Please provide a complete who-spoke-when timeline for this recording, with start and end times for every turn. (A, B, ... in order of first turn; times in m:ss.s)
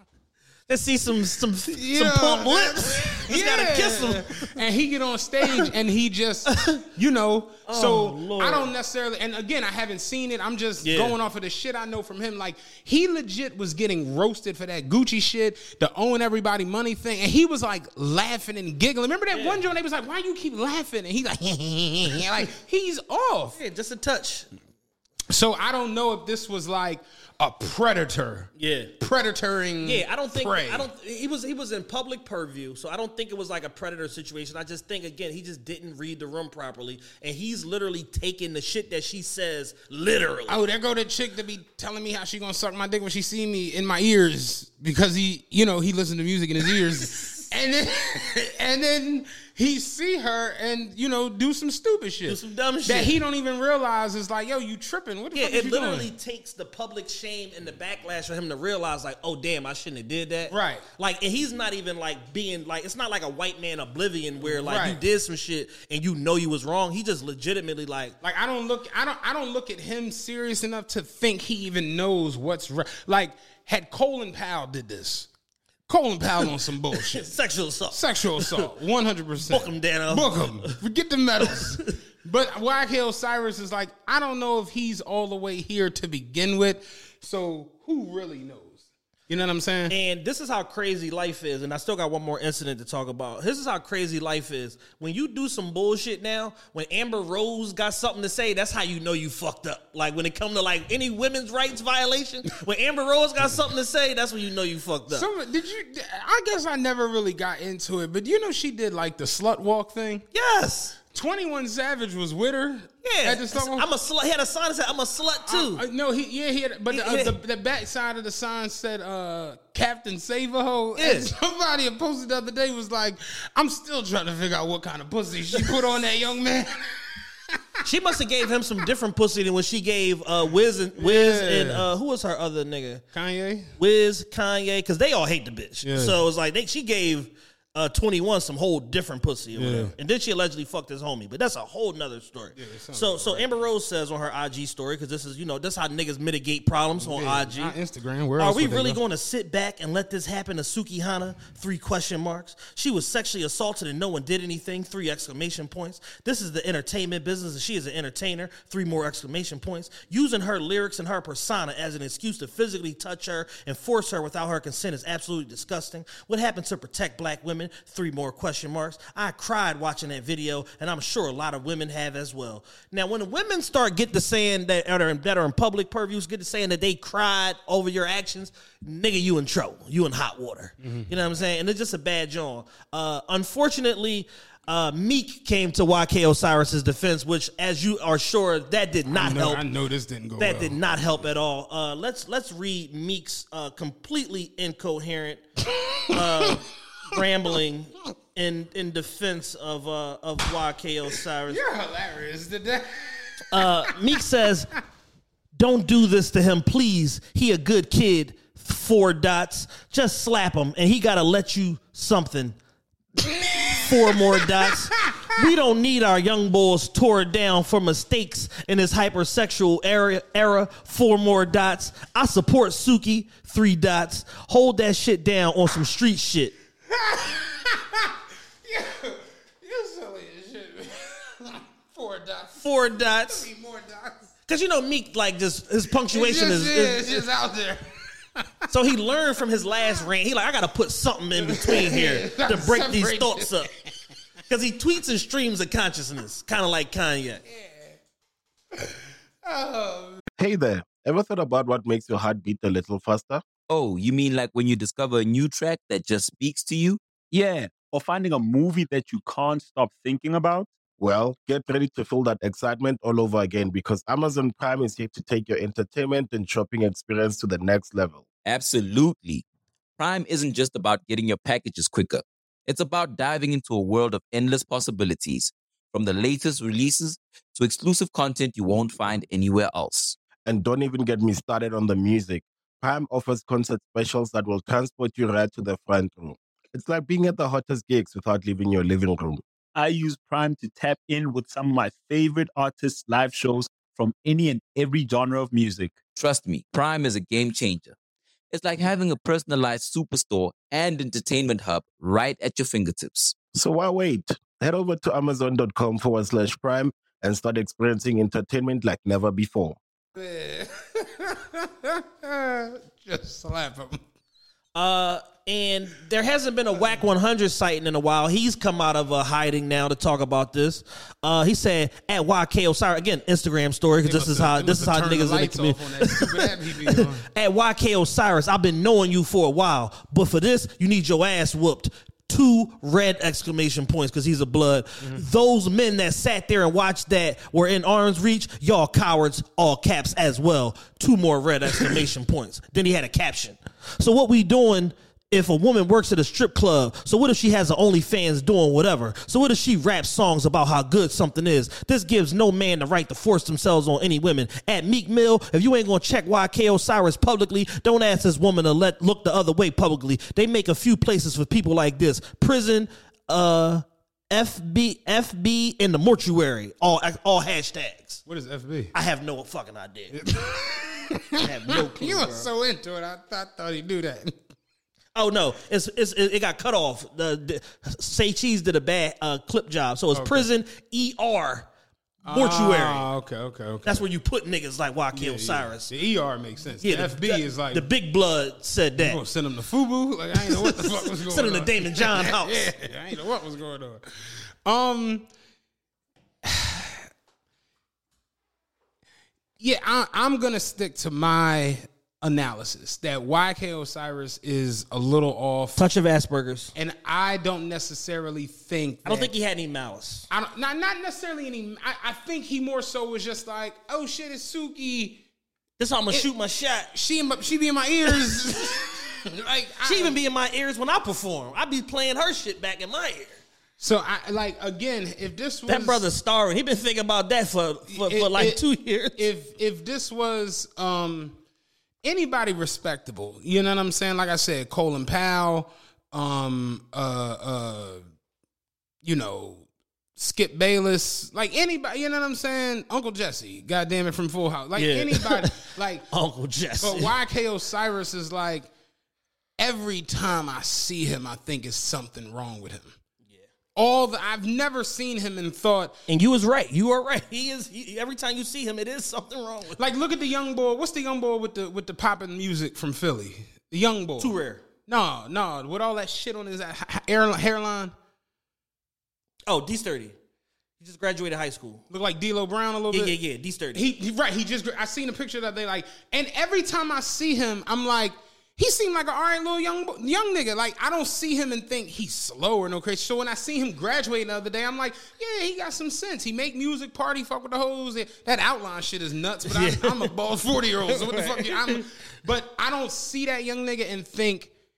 0:00.7-0:04.6 A
0:01.7-0:23.6 B
0:06.5-0:06.8 A
0:07.7-0:08.7 A
0:10.8-0:11.2 A
0:19.3-0:19.6 A
0:23.6-0:24.5 A
0:25.3-0:30.9 B
0:28.6-0:28.9 A
0:29.8-0:40.6 A
0:40.5-0:56.1 B
0:52.3-0:53.2 A
0:55.3-1:08.2 A
1:00.5-1:00.8 B
1:04.4-1:05.0 B
1:08.2-1:15.3 B
1:15.9-1:17.3 B
1:16.9-1:18.7 A
1:17.9-1:30.0 B
1:19.4-1:20.8 A
1:29.9-1:45.3 A
1:45.1-1:50.2 B
1:50.3-1:51.0 A
1:51.1-1:53.9 B
1:53.0-1:55.8 A
1:55.5-2:07.8 B
1:56.9-1:57.4 A
2:01.0-2:01.3 A
2:07.8-2:13.0 A
2:11.0-2:11.9 B
2:13.1-2:13.7 B
2:13.8-2:27.8 A
2:15.8-2:16.2 B
2:19.6-2:19.9 B
2:22.5-2:23.5 B
2:27.0-2:29.0 B
2:28.4-3:09.6 A
3:00.8-3:01.1 B
3:09.1-3:10.8 B
3:10.4-3:15.5 A
3:15.7-3:17.2 B
3:16.1-3:21.6 A
3:21.5-3:24.2 B
3:23.5-3:24.7 A
3:25.5-3:32.6 A
3:33.2-3:35.3 B
3:33.8-3:46.5 A
3:46.9-3:54.3 B
3:52.6-3:53.5 A
3:54.5-3:57.3 A
3:56.1-3:58.7 B
3:58.7-4:03.7 A
3:59.8-4:00.1 B
4:01.4-4:04.0 B
4:04.5-4:07.4 A
4:07.4-4:08.0 B
4:08.7-4:10.2 B
4:10.4-4:13.4 C
4:13.7-4:17.0 D
4:17.3-4:20.7 E
4:21.0-4:28.3 C
4:28.4-4:29.4 D
4:30.0-4:40.2 D
4:40.5-4:49.4 C
4:49.8-4:56.0 E
4:56.2-4:58.0 D
4:58.5-5:03.4 D
5:03.5-5:09.8 C
5:10.1-5:14.0 B
5:14.8-6:08.2 A
5:16.7-5:17.0 B
5:24.0-5:27.3 B
6:08.3-6:08.9 B
6:08.9-6:10.2 A
6:10.1-6:14.5 B
6:11.4-6:12.5 A
6:15.2-6:21.7 A
6:20.1-6:20.5 B
6:22.2-6:24.1 B
6:22.3-6:23.1 A
6:23.8-6:25.9 A
6:25.1-6:27.9 B
6:26.8-6:29.2 A
6:29.0-6:35.3 B
6:30.4-6:32.7 A
6:36.4-6:37.1 B
6:39.6-6:45.8 B
6:45.8-6:46.7 A
6:46.8-6:49.3 B
6:49.1-6:50.3 A
6:50.3-6:55.2 B
6:55.8-6:56.9 A
6:56.9-7:00.2 B
6:58.1-6:58.4 A
6:59.8-7:03.4 A
7:03.8-7:06.1 B
7:05.7-7:09.2 A
7:07.9-7:11.4 B
7:12.0-7:18.0 B
7:19.0-7:19.7 B
7:20.2-7:26.1 B
7:24.8-7:27.1 A
7:26.8-7:28.7 B
7:29.6-7:33.0 B
7:33.8-7:36.0 B
7:36.1-7:39.8 A
7:39.8-7:48.0 B
7:44.2-7:44.6 A
7:49.5-7:50.2 A
7:50.8-7:51.8 A
7:51.9-7:53.2 B
7:52.9-7:53.8 A
7:53.7-8:14.5 B
8:09.5-8:10.1 A
8:10.8-8:11.9 A